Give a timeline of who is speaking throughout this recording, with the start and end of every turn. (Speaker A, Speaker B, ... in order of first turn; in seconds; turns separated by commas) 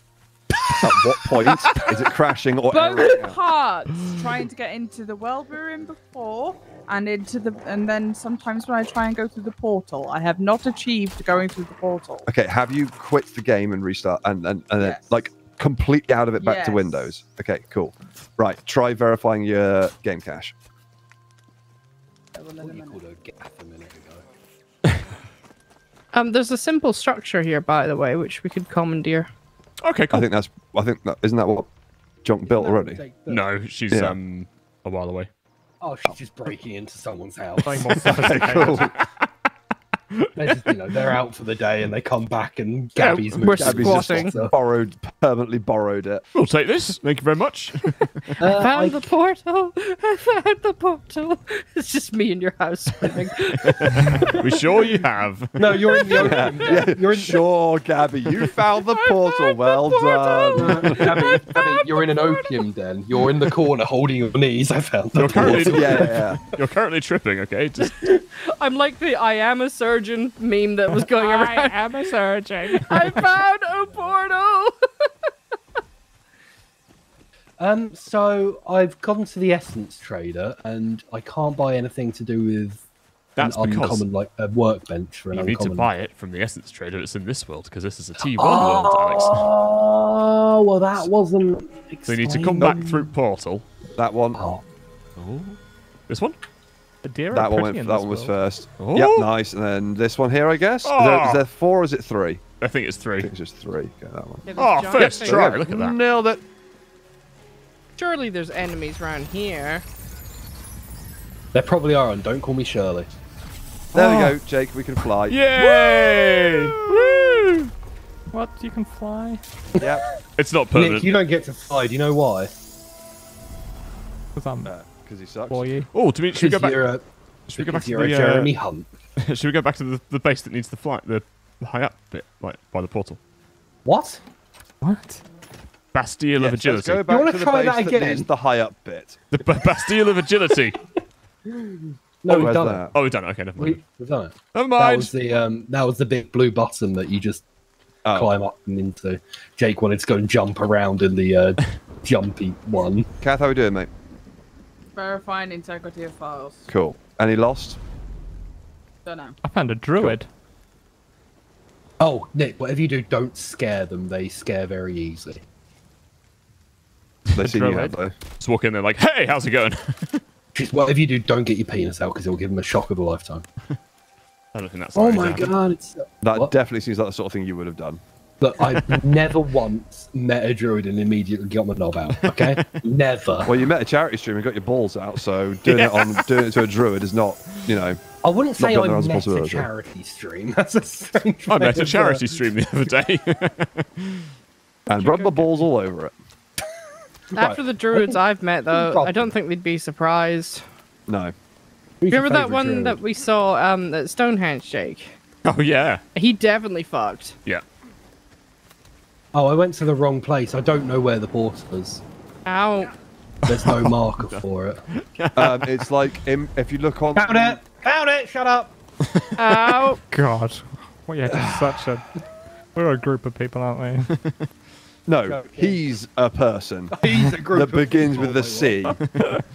Speaker A: 0.8-3.3, Speaker B: 1.4-2.1, Speaker C: 2.7-12.3, Speaker B: 2.7-3.3, Speaker A: 12.3-20.5, Speaker C: 16.4-17.1, Speaker C: 22.3-23.0, Speaker D: 22.6-24.2, Speaker B: 26.1-29.3, Speaker E: 29.8-30.3, Speaker A: 30.1-31.7, Speaker A: 32.2-33.0, Speaker D: 32.4-33.4, Speaker E: 33.3-35.3, Speaker A: 33.9-34.2, Speaker D: 35.8-38.2, Speaker F: 37.6-38.9, Speaker E: 38.0-39.2, Speaker A: 38.0-38.9, Speaker E: 40.1-41.2, Speaker D: 40.4-44.5, Speaker B: 43.0-44.3, Speaker A: 43.5-46.2, Speaker E: 46.3-48.3, Speaker B: 48.0-54.3, Speaker D: 48.4-49.1, Speaker D: 54.0-54.5, Speaker E: 54.0-56.0, Speaker D: 55.6-57.4, Speaker B: 55.9-56.8, Speaker A: 56.2-61.4, Speaker B: 58.7-62.7, Speaker D: 60.5-66.3, Speaker E: 65.1-68.0, Speaker A: 65.3-66.4, Speaker B: 67.8-72.2, Speaker F: 70.9-73.4, Speaker B: 72.7-75.3, Speaker D: 73.7-74.1, Speaker D: 77.6-82.8, Speaker E: 83.3-84.0, Speaker D: 83.4-85.9, Speaker E: 85.3-89.5, Speaker D: 88.2-93.0, Speaker E: 92.1-93.6, Speaker A: 92.6-92.9, Speaker A: 94.0-94.4, Speaker D: 94.3-94.6, Speaker E: 95.2-95.6, Speaker E: 96.1-96.4, Speaker F: 97.0-98.3, Speaker A: 97.3-102.4, Speaker E: 98.8-99.3, Speaker E: 100.8-101.4, Speaker E: 102.6-103.3, Speaker A: 103.2-106.4, Speaker B: 104.5-105.6, Speaker E: 104.6-106.0, Speaker B: 108.0-109.8, Speaker D: 111.5-113.1, Speaker E: 113.9-114.3, Speaker A: 113.9-115.4, Speaker E: 115.3-117.7, Speaker F: 116.1-116.8, Speaker F: 118.3-119.4, Speaker A: 119.8-120.0, Speaker E: 120.4-121.1, Speaker D: 120.7-122.5, Speaker F: 124.3-124.7, Speaker A: 124.7-125.7, Speaker F: 125.5-125.9, Speaker E: 125.9-126.8, Speaker D: 126.3-128.9, Speaker E: 127.5-128.5, Speaker E: 129.2-133.2, Speaker D: 133.8-134.2, Speaker F: 134.8-135.2, Speaker E: 135.9-137.0, Speaker A: 136.4-139.2, Speaker D: 137.1-138.3, Speaker E: 139.3-140.8, Speaker D: 141.5-142.9, Speaker A: 142.3-142.9, Speaker E: 142.3-143.8, Speaker D: 143.6-147.4, Speaker E: 144.5-145.1, Speaker A: 148.1-148.3, Speaker D: 148.1-153.1, Speaker A: 153.2-153.9, Speaker C: 154.9-156.7, Speaker A: 156.7-157.8, Speaker C: 159.0-159.4, Speaker F: 159.4-160.3, Speaker D: 162.0-165.4, Speaker A: 167.3-168.1, Speaker F: 167.4-167.9, Speaker E: 168.4-170.2, Speaker D: 170.5-173.4, Speaker E: 174.5-175.5, Speaker D: 174.9-176.5, Speaker A: 176.2-178.0, Speaker D: 178.4-183.5, Speaker E: 178.7-179.0, Speaker E: 182.2-182.7, Speaker A: 183.4-188.0, Speaker E: 185.6-186.4, Speaker D: 188.2-192.4, Speaker A: 188.6-189.7, Speaker E: 191.5-194.3, Speaker A: 194.9-196.1, Speaker F: 195.0-195.5, Speaker D: 197.3-198.2, Speaker B: 197.3-200.6, Speaker D: 198.7-199.3, Speaker A: 201.1-201.3, Speaker D: 202.0-203.0, Speaker B: 202.1-205.1, Speaker E: 205.4-206.0, Speaker B: 206.1-207.3, Speaker D: 209.3-212.0, Speaker B: 212.4-212.9, Speaker E: 213.4-215.9, Speaker D: 213.5-214.8, Speaker A: 215.3-217.6, Speaker D: 217.2-218.7, Speaker B: 219.4-220.0, Speaker F: 220.1-222.1, Speaker A: 221.3-221.8, Speaker F: 222.7-224.1, Speaker E: 224.1-224.5, Speaker A: 225.1-229.0, Speaker D: 225.2-225.8, Speaker D: 226.9-229.0